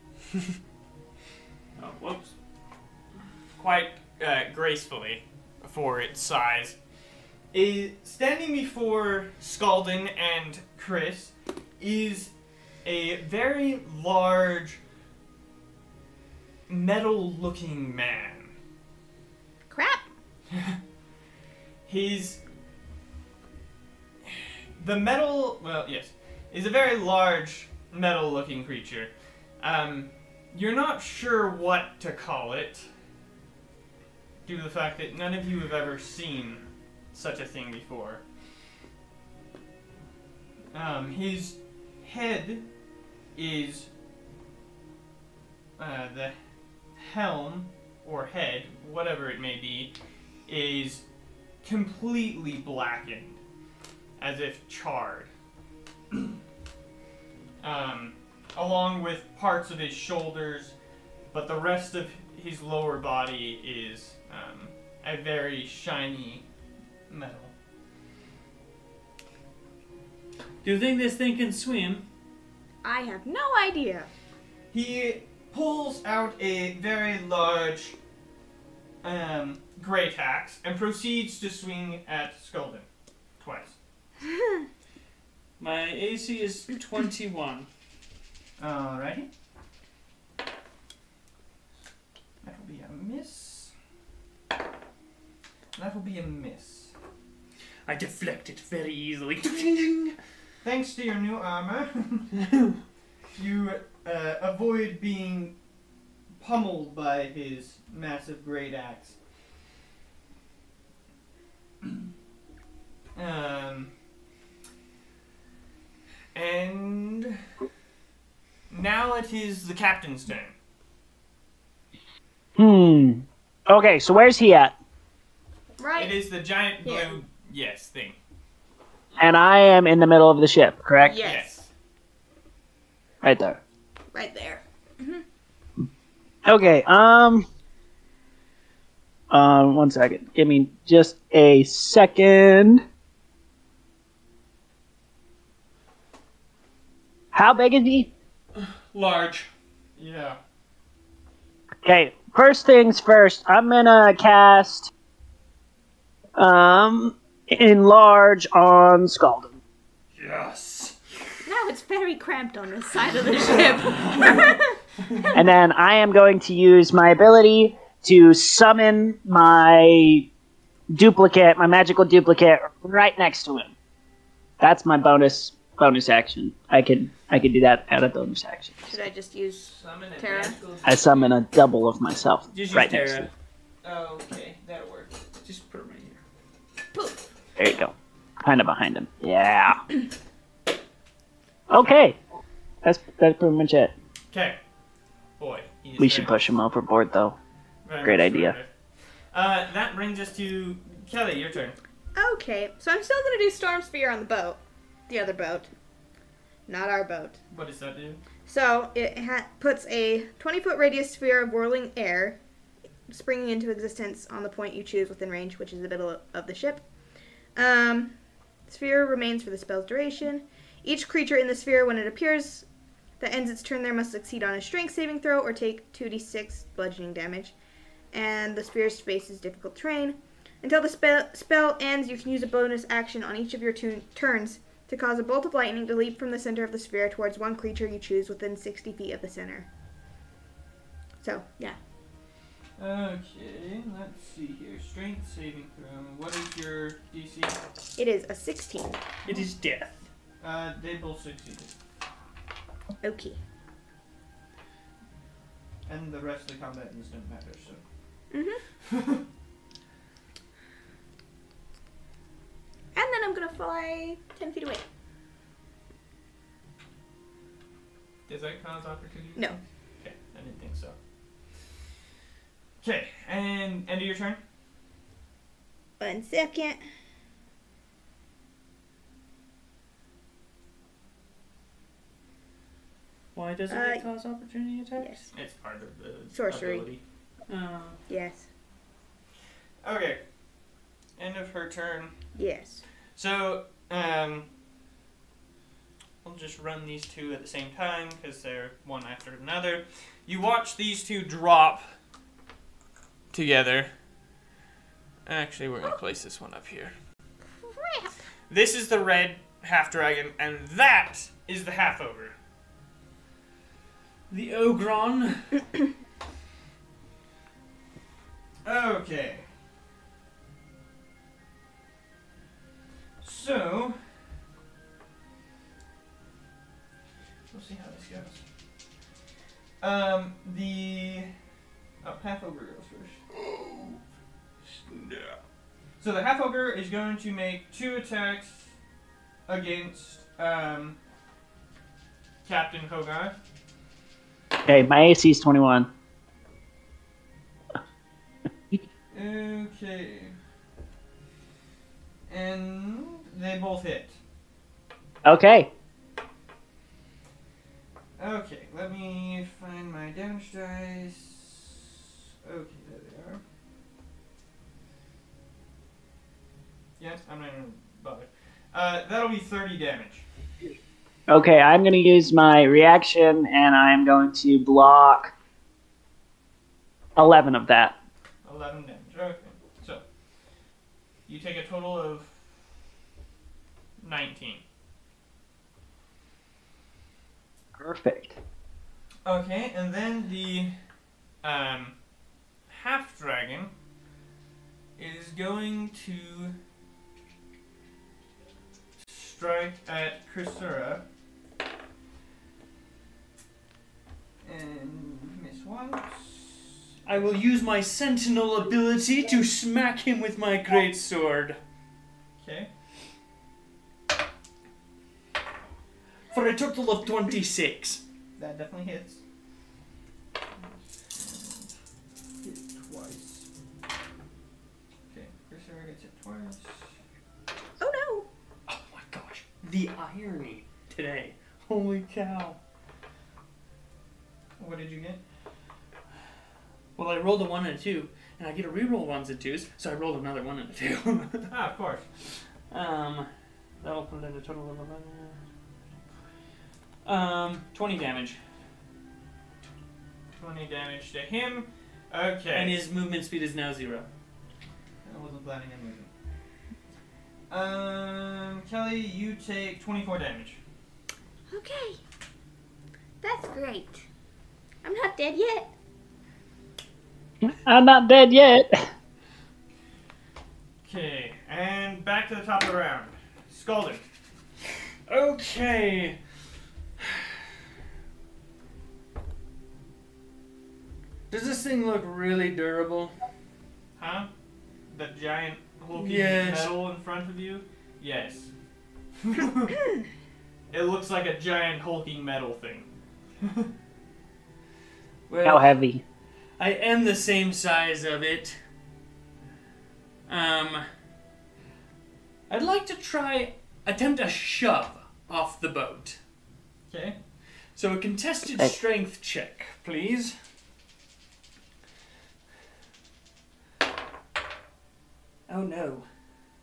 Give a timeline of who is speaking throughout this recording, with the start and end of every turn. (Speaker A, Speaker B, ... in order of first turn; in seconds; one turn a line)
Speaker A: 1.8-2.3
Speaker B: 3.6-6.8
Speaker B: 7.5-12.3
Speaker B: 12.8-14.8
Speaker B: 16.7-18.5
Speaker C: 19.7-20.1
Speaker B: 21.9-22.4
Speaker B: 24.2-32.9
Speaker B: 34.4-38.2
Speaker B: 40.7-42.6
Speaker B: 43.4-43.9
Speaker B: 45.8-46.4
Speaker B: 47.0-49.9
Speaker B: 50.5-51.0
Speaker B: 51.6-53.4
Speaker B: 54.2-55.3
Speaker B: 56.1-56.4
Speaker B: 57.6-60.7
Speaker B: 61.3-66.4
Speaker B: 67.1-67.5
Speaker A: 70.6-72.1
Speaker C: 72.8-74.1
Speaker B: 74.7-78.0
Speaker B: 79.0-82.9
Speaker B: 83.4-83.8
Speaker A: 85.6-87.7
Speaker B: 88.6-89.3
Speaker B: 92.4-93.7
Speaker B: 95.8-96.9
Speaker A: 97.9-100.2
Speaker B: 100.6-102.3
Speaker B: 103.3-105.5
Speaker B: 106.4-109.2
Speaker B: 113.2-113.9
Speaker B: 116.3-117.4
Speaker B: 118.7-120.5
Speaker D: 122.5-124.7
Speaker C: 125.8-126.2
Speaker B: 126.0-128.2
Speaker C: 126.8-127.1
Speaker D: 129.2-131.2
Speaker C: 131.0-131.6
Speaker B: 131.2-131.7
Speaker D: 133.2-133.6
Speaker C: 134.1-135.2
Speaker D: 136.4-137.5
Speaker D: 139.3-142.8
Speaker D: 147.3-148.1
Speaker A: 148.5-149.5
Speaker B: 150.0-150.4
Speaker D: 151.8-154.9
Speaker D: 156.4-159.6
Speaker A: 160.2-161.0
Speaker C: 161.4-165.2
Speaker A: 163.8-164.6
Speaker D: 165.3-170.3
Speaker D: 170.9-173.7
Speaker D: 174.6-178.9
Speaker C: 178.9-180.6
Speaker B: 179.6-181.4
Speaker D: 180.8-183.3
Speaker A: 182.5-183.3
Speaker B: 183.8-185.2
Speaker A: 185.4-186.2
Speaker C: 186.9-187.2
Speaker D: 187.6-189.8
Speaker D: 191.7-192.2
Speaker D: 192.8-193.9
Speaker B: 194.3-194.6
Speaker B: 195.4-196.4
Speaker D: 196.0-197.4
Speaker B: 197.8-198.7
Speaker D: 198.0-198.6
Speaker B: 199.3-201.8
Speaker C: 202.1-205.7
Speaker C: 206.7-207.4
Speaker B: 207.5-208.2
Speaker C: 208.4-212.4
Speaker C: 213.1-216.8
Speaker C: 217.6-218.1
Speaker C: 218.7-222.7
Speaker C: 223.2-227.5
Speaker C: 228.1-239.7
Speaker C: 241.2-241.8
Speaker B: 242.8-247.6
Speaker C: 247.9-249.0
Speaker A: 249.2-250.0
Speaker B: 250.4-251.7
Speaker C: 253.0-253.4
Speaker B: 255.9-257.8
Speaker C: 258.3-258.6
Speaker B: 258.8-259.2
Speaker C: 262.9-264.8
Speaker B: 268.3-270.9
Speaker B: 272.8-274.4
Speaker C: 276.0-276.8
Speaker A: 283.4-285.3
Speaker C: 283.7-284.0
Speaker C: 285.0-285.3
Speaker B: 285.3-287.0
Speaker C: 286.3-286.9
Speaker A: 287.5-288.0
Speaker C: 288.1-288.5
Speaker B: 289.8-290.2
Speaker B: 291.2-292.1
Speaker C: 292.4-292.8
Speaker B: 293.1-294.5
Speaker B: 296.2-301.8
Speaker B: 303.3-303.9
Speaker B: 305.2-306.9
Speaker C: 307.6-308.1
Speaker B: 308.5-312.3
Speaker A: 314.3-315.5
Speaker B: 318.6-319.4
Speaker B: 323.2-324.0
Speaker B: 327.5-328.4
Speaker B: 329.8-331.3
Speaker B: 332.0-334.0
Speaker B: 334.6-335.4
Speaker B: 336.0-338.6
Speaker B: 339.5-341.0
Speaker B: 342.4-343.4
Speaker D: 344.6-345.9
Speaker B: 349.1-350.4
Speaker B: 352.3-354.2
Speaker D: 355.2-355.7
Speaker B: 358.2-363.4
Speaker B: 367.0-370.2
Speaker D: 371.3-375.3
Speaker D: 377.1-377.9
Speaker B: 378.4-380.0
Speaker B: 381.3-382.4
Speaker B: 384.0-384.6
Speaker D: 387.8-388.4
Speaker B: 389.2-390.7
Speaker B: 391.4-391.9
Speaker B: 392.7-393.7
Speaker B: 395.0-396.5
Speaker B: 399.0-401.0
Speaker B: 404.4-407.3
Speaker A: 407.0-411.6
Speaker B: 412.4-412.7
Speaker A: 416.3-418.0
Speaker B: 418.4-419.2
Speaker B: 420.6-421.7
Speaker B: 422.4-423.5
Speaker B: 425.1-426.9
Speaker C: 427.8-428.3
Speaker A: 428.7-432.6
Speaker B: 434.6-435.2
Speaker A: 436.9-441.5
Speaker B: 441.5-442.0
Speaker A: 442.7-443.3
Speaker A: 443.8-445.4
Speaker A: 447.0-448.4
Speaker B: 450.4-452.8
Speaker A: 452.5-454.1
Speaker B: 455.0-456.1
Speaker B: 457.5-460.6
Speaker C: 461.5-462.0
Speaker C: 463.2-464.0
Speaker C: 464.8-465.7
Speaker D: 467.4-468.9
Speaker B: 470.8-474.0
Speaker A: 475.1-476.2
Speaker A: 477.0-477.2
Speaker A: 481.3-483.1
Speaker B: 484.0-484.3
Speaker B: 484.9-488.5
Speaker A: 485.9-486.7
Speaker B: 489.2-489.8
Speaker B: 490.7-492.9
Speaker B: 493.4-493.7
Speaker A: 495.3-495.7
Speaker D: 495.4-496.0
Speaker A: 496.6-498.6
Speaker A: 500.3-500.9
Speaker A: 502.5-506.2
Speaker B: 506.9-507.2
Speaker A: 507.7-510.4
Speaker A: 515.5-516.0